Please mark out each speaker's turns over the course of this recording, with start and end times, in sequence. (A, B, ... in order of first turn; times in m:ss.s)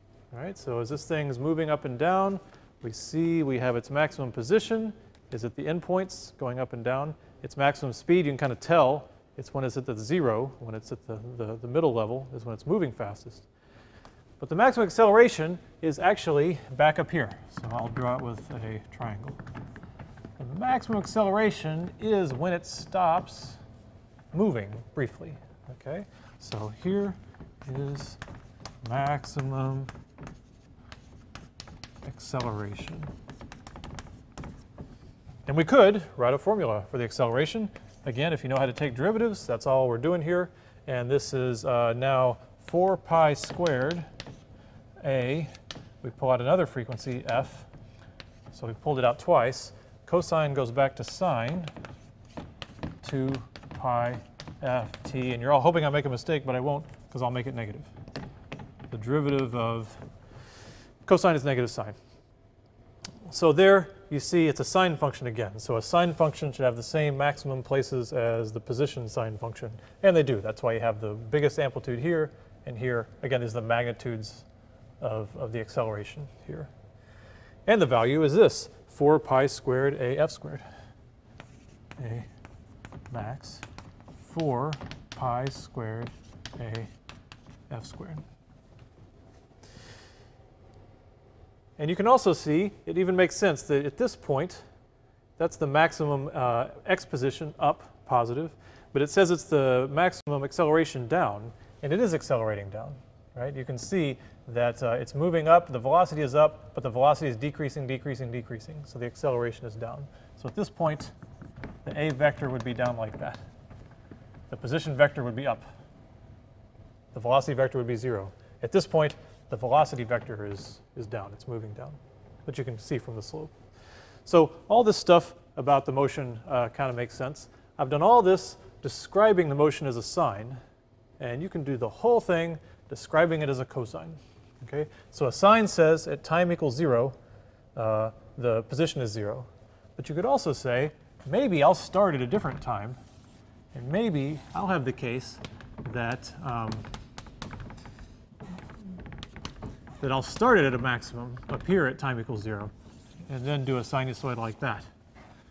0:00.3-0:13.5 A
0:14.4-0:19.4 A
0:20.4-0:23.6 A
0:24.3-0:28.2 A
0:28.8-0:29.9 A
0:32.0-0:33.1 A
0:35.5-0:44.1 A
0:45.0-0:45.5 A
0:46.0-0:47.7 A
0:48.5-0:51.7 A
0:53.0-0:57.9 A
0:58.9-1:00.0 A
1:01.0-1:02.0 A
1:03.3-1:14.5 A
1:15.0-1:16.7 A
1:17.7-1:20.6 A
1:22.0-1:22.3 A
1:23.1-1:23.6 A
1:24.2-1:26.9 A
1:27.7-1:28.2 A
1:31.8-1:34.6 A
1:35.4-1:51.1 A
1:51.8-1:53.4 A
1:54.5-1:55.7 A
1:57.1-2:03.5 A
2:04.2-2:10.6 A
2:11.2-2:17.2 A
2:17.8-2:23.0 A
2:23.7-2:26.9 A
2:30.0-2:32.7 A
2:33.3-2:34.9 A